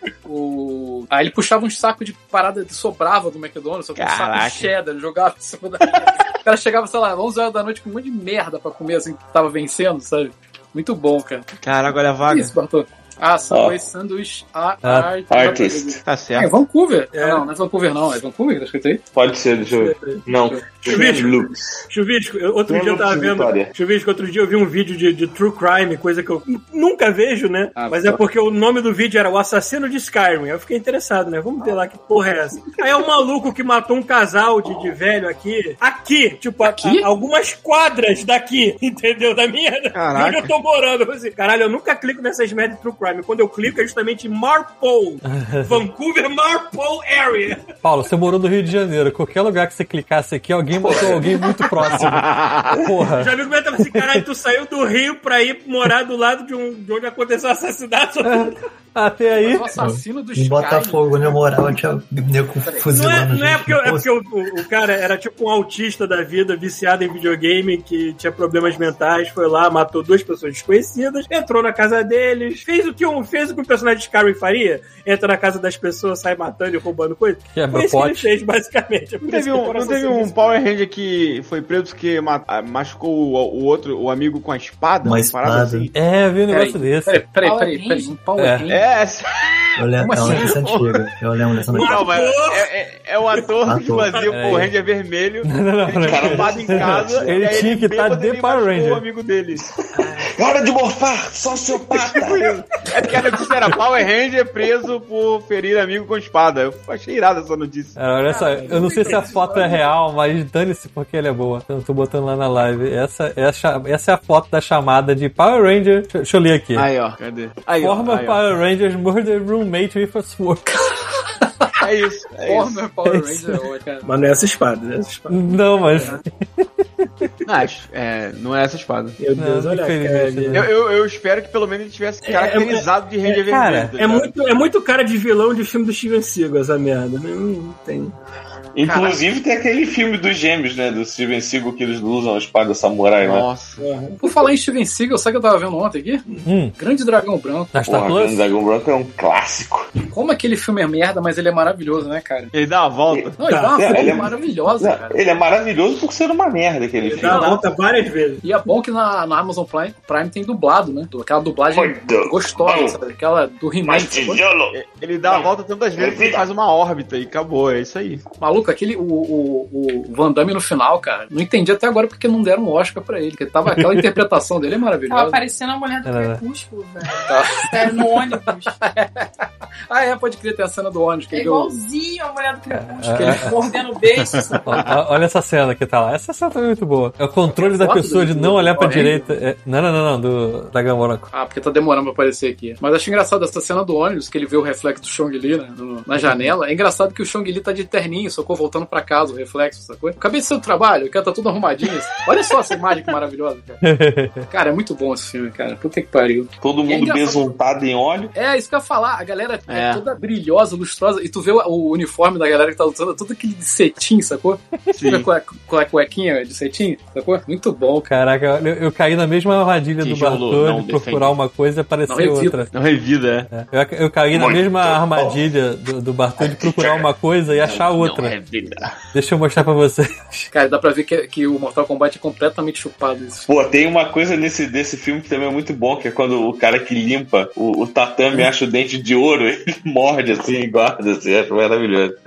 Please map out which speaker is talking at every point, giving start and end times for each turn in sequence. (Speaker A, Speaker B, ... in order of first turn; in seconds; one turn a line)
Speaker A: 0.2-11.4
Speaker B: 4.0-4.7
Speaker B: 11.6-12.5
Speaker A: 12.2-19.0
Speaker C: 13.5-13.8
Speaker D: 14.8-15.2
Speaker C: 15.3-16.0
Speaker B: 16.0-16.6
Speaker E: 17.1-17.4
Speaker C: 19.1-21.7
Speaker E: 19.6-20.2
Speaker E: 20.9-21.4
Speaker E: 21.9-47.6
Speaker C: 22.7-23.7
Speaker A: 27.8-28.2
Speaker B: 39.9-40.5
Speaker D: 45.2-45.8
Speaker D: 47.8-54.2
Speaker C: 50.7-51.5
Speaker B: 51.9-52.8
Speaker E: 53.1-58.5
Speaker D: 58.2-59.7
Speaker A: 59.3-61.3
Speaker F: 59.8-64.1
Speaker A: 62.6-62.9
Speaker E: 62.9-80.5
Speaker D: 77.5-78.3
Speaker B: 79.2-85.9
Speaker F: 85.0-85.9
Speaker D: 85.9-87.3
Speaker A: 86.5-88.8
Speaker G: 87.3-88.2
Speaker D: 88.3-88.7
Speaker B: 88.7-90.9
Speaker F: 89.8-92.1
Speaker A: 90.0-90.6
Speaker E: 91.7-92.7
Speaker B: 91.7-99.6
Speaker F: 93.6-94.2
Speaker D: 94.3-94.7
Speaker D: 95.4-99.0
Speaker C: 96.0-97.2
Speaker C: 99.6-102.5
Speaker E: 99.9-100.3
Speaker B: 102.0-108.0
Speaker D: 108.0-116.9
Speaker A: 108.3-109.9
Speaker E: 108.4-109.4
Speaker B: 116.7-118.4
Speaker D: 117.8-120.8
Speaker B: 121.8-122.9
Speaker A: 122.4-124.1
Speaker D: 123.0-123.6
Speaker E: 124.0-126.2
Speaker D: 125.3-126.2
Speaker B: 127.5-129.2
Speaker E: 129.2-130.7
Speaker D: 129.3-130.7
Speaker B: 130.5-134.3
Speaker D: 133.3-133.9
Speaker E: 134.0-138.1
Speaker C: 138.7-143.4
Speaker A: 138.8-139.2
Speaker B: 143.2-143.8
Speaker E: 143.8-144.2
Speaker A: 144.2-146.2
Speaker D: 146.4-146.7
Speaker A: 146.8-147.8
Speaker D: 147.7-148.4
Speaker C: 147.8-149.9
Speaker A: 150.1-152.5
Speaker B: 152.5-153.4
Speaker C: 153.1-157.6
Speaker A: 153.4-155.2
Speaker E: 153.4-154.2
Speaker E: 157.0-158.4
Speaker A: 157.2-157.6
Speaker A: 158.4-164.4
Speaker C: 161.7-163.0
Speaker C: 163.8-166.5
Speaker B: 164.7-168.2
Speaker A: 168.4-175.5
Speaker D: 173.7-174.1
Speaker G: 175.1-178.8
Speaker D: 176.0-176.4
Speaker A: 177.2-179.3
Speaker A: 179.9-181.8
Speaker G: 181.3-184.8
Speaker D: 182.7-183.5
Speaker A: 183.1-183.8
Speaker B: 184.1-184.9
Speaker D: 184.7-191.3
Speaker A: 187.5-189.3
Speaker A: 191.3-203.8
Speaker D: 196.2-196.5
Speaker D: 203.8-204.5
Speaker A: 204.5-207.5
Speaker C: 206.6-208.3
Speaker A: 208.3-218.1
Speaker B: 209.7-210.0
Speaker B: 214.9-215.3
Speaker D: 218.1-222.7
Speaker B: 220.0-221.4
Speaker A: 222.1-222.7
Speaker B: 222.7-223.5
Speaker D: 223.5-228.3
Speaker C: 224.3-225.4
Speaker C: 226.4-227.1
Speaker B: 227.7-228.8
Speaker D: 229.1-230.5
Speaker A: 230.5-233.5
Speaker C: 233.5-242.2